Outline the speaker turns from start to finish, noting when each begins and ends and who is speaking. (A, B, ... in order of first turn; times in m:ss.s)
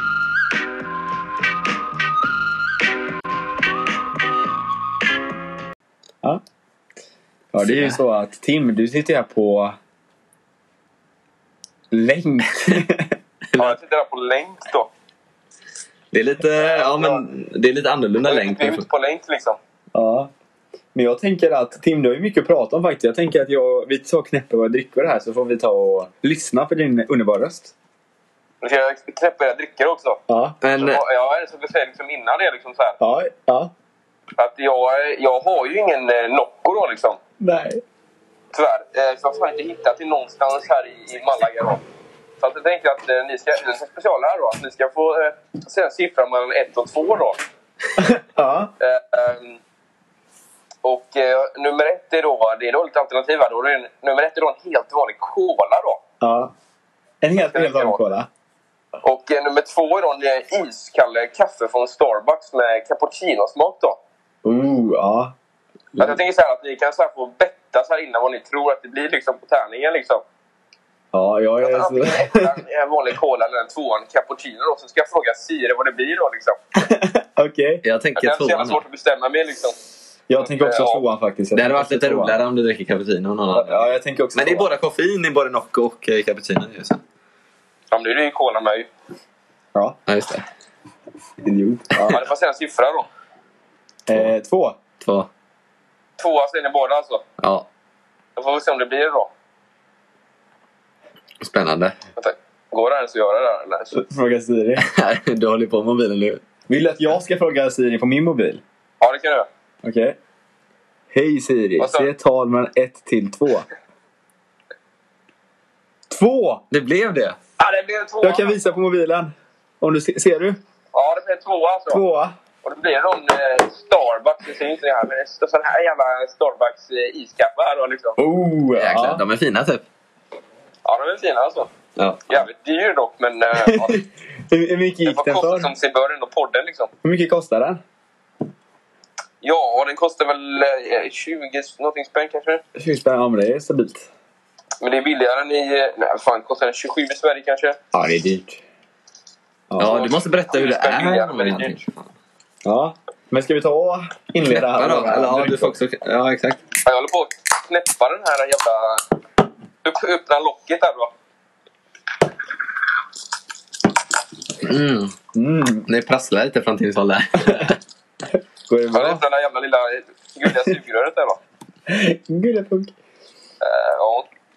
0:07.5-0:09.8 A
0:07.6-0:07.9 B
0:11.9-0:13.2 A
0:13.5-0:14.9 C
0:16.1-0:18.8 B
0:16.6-0:17.2 C
0:18.2-0:19.6 C
0:19.9-0:20.3 A
0:20.9-0:27.7 A
0:28.6-0:30.2 C
0:30.3-0:30.6 A
0:30.6-0:31.0 B
0:30.8-0:33.0 C
0:33.0-0:33.7 A
0:34.4-0:37.2 C
0:37.4-0:37.8 A
0:38.5-0:41.8 C
0:42.4-0:47.4 C
0:48.0-0:48.7 A
0:48.8-0:49.6 C
0:50.8-0:56.0 C
0:56.2-0:56.5 A
0:57.2-0:58.3 A
0:57.3-0:58.0 C
0:59.0-1:04.0 C
1:04.4-1:05.3 A
1:06.0-1:10.2 C
1:11.1-1:12.5 A
1:11.6-1:16.6 C
1:16.8-1:17.8 A
1:17.8-1:18.8 B
1:18.1-1:19.8 C
1:20.3-1:22.4 A
1:20.4-1:21.0 C
1:21.5-1:27.0 B
1:23.5-1:24.7 A
1:27.9-1:28.9 C
1:30.1-1:30.4 B
1:31.4-1:32.2 A
1:32.0-1:33.1 C
1:34.1-1:34.8 A
1:35.0-1:35.3 B
1:36.2-1:37.2 C
1:37.4-1:37.6 B
1:38.4-1:39.3 C
1:41.4-1:41.9 B
1:42.2-1:44.0 C
1:43.9-1:44.9 A
1:44.8-1:46.4 B
1:46.7-1:48.6 A
1:49.0-1:49.5 C
1:49.8-1:50.2 A
1:51.1-1:53.7 A
1:51.8-1:52.1 C
1:56.1-1:56.6 A
1:56.7-1:57.4 B
1:57.6-1:58.6 C
1:58.2-2:00.6 A
2:00.9-2:02.0 C
2:01.9-2:02.3 A
2:02.6-2:08.2 C
2:08.2-2:09.2 A
2:08.7-2:09.8 B
2:10.8-2:11.7 C
2:12.0-2:12.4 B
2:12.3-2:14.0 C
2:13.6-2:15.7 A
2:15.0-2:16.9 C
2:17.0-2:17.8 A
2:19.4-2:22.6 C
2:22.7-2:24.1 A
2:24.8-2:27.8 C
2:27.9-2:28.6 A
2:29.7-2:30.0 A
2:29.8-2:32.1 B
2:29.8-2:31.8 C
2:32.6-2:35.8 A
2:34.5-2:36.6 B
2:36.8-2:39.0 C
2:39.8-2:41.1 C
2:44.6-2:45.1 B
2:45.3-2:45.9 A
2:45.9-2:47.8 B
2:47.4-2:47.7 A
2:48.3-2:49.2 A
2:48.9-2:51.4 C
2:51.9-2:52.9 A
2:53.6-2:54.3 C